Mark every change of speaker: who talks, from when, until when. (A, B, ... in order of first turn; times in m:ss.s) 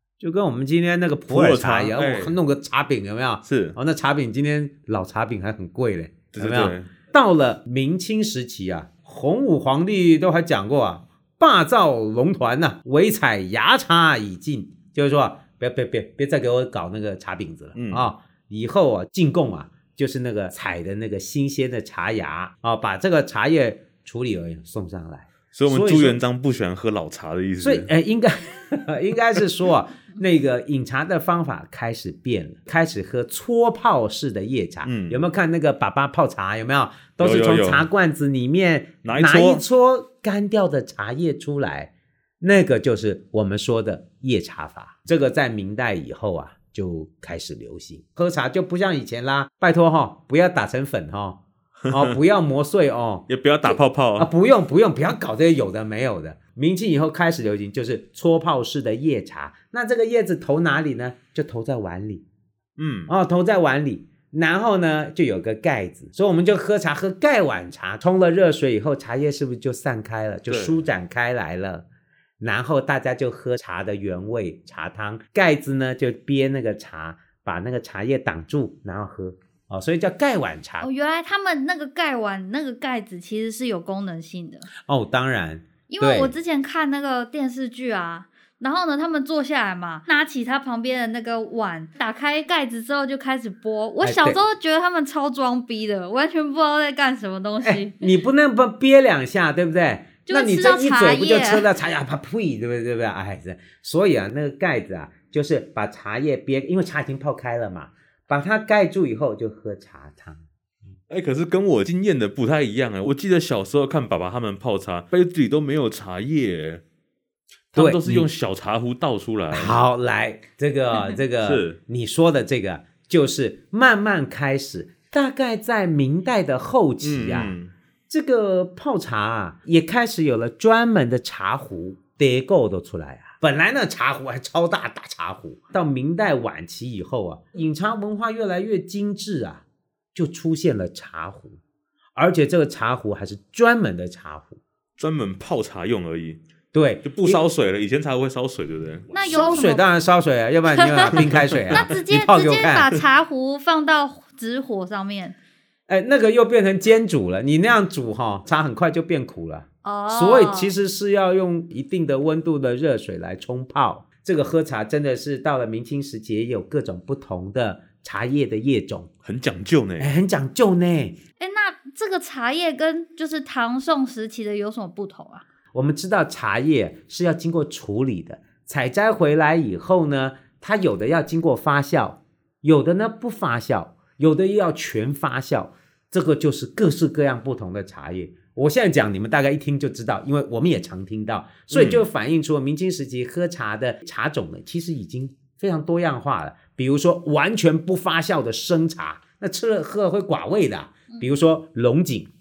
0:00.2-0:26.2 A
0:01.3-0:02.4 B
0:03.4-0:03.8 B
0:06.3-0:06.9 B
0:17.8-0:18.1 B
0:25.5-0:27.9 B
0:27.6-1:02.2 A
0:34.8-0:35.2 B
0:37.2-0:37.9 B
0:39.0-0:39.6 B
0:51.9-0:52.2 B
0:53.3-0:54.3 B
1:02.8-1:03.1 B
1:03.1-1:11.9 A
1:10.5-1:10.8 B
1:12.4-1:20.9 A
1:20.8-1:24.7 C
1:24.8-1:26.3 A
1:25.9-1:38.1 C
1:34.0-1:34.4 A
1:37.6-1:50.5 A
1:40.3-1:41.7 C
1:51.1-1:56.8 B
1:57.8-1:58.3 A
1:57.8-1:59.8 B
1:59.5-2:07.6 A
2:01.4-2:01.8 B
2:07.0-2:07.7 B
2:08.1-2:21.6 A
2:22.2-2:24.6 A
2:25.0-2:26.4 B
2:26.7-2:27.4 A
2:27.0-2:29.6 B
2:29.1-2:29.9 C
2:29.2-2:32.9 A
2:30.7-2:35.4 C
2:31.1-2:31.9 B
2:35.9-2:49.1 A
2:39.8-2:40.7 C
2:49.2-2:50.1 B
2:50.0-2:51.2 A
2:51.4-2:55.4 C
2:55.7-3:22.3 A
3:11.7-3:12.1 B